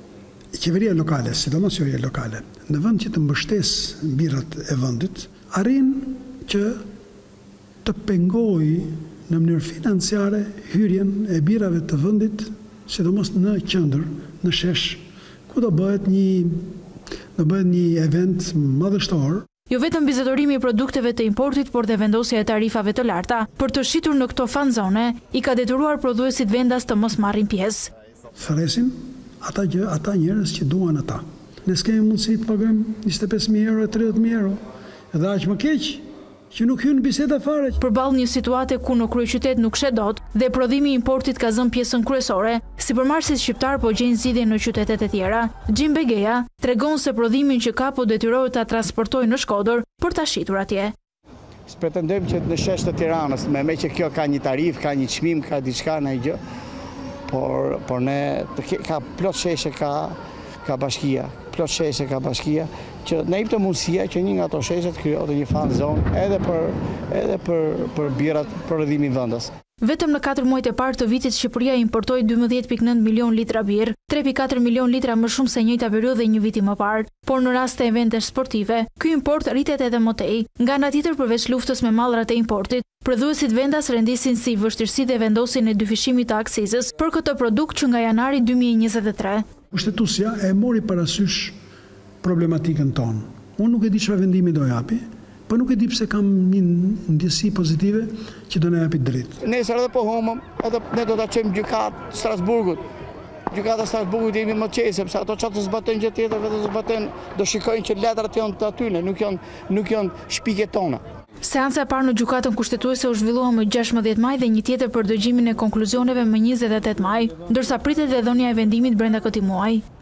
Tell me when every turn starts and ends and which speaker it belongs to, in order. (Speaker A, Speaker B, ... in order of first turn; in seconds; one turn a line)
Speaker A: 0.5-6.8
Speaker A: 7.8-16.7
Speaker A: 17.4-19.5
Speaker B: 19.7-27.9
Speaker A: 28.4-34.6
Speaker A: 35.1-37.8
Speaker B: 37.8-50.9
Speaker C: 51.7-56.4
Speaker C: 57.3-69.5
Speaker B: 69.8-89.4
Speaker A: 89.7-91.6
Speaker A: 92.2-99.4
Speaker C: 99.4-102.8
Speaker C: 103.5-111.0
Speaker B: 111.4-119.8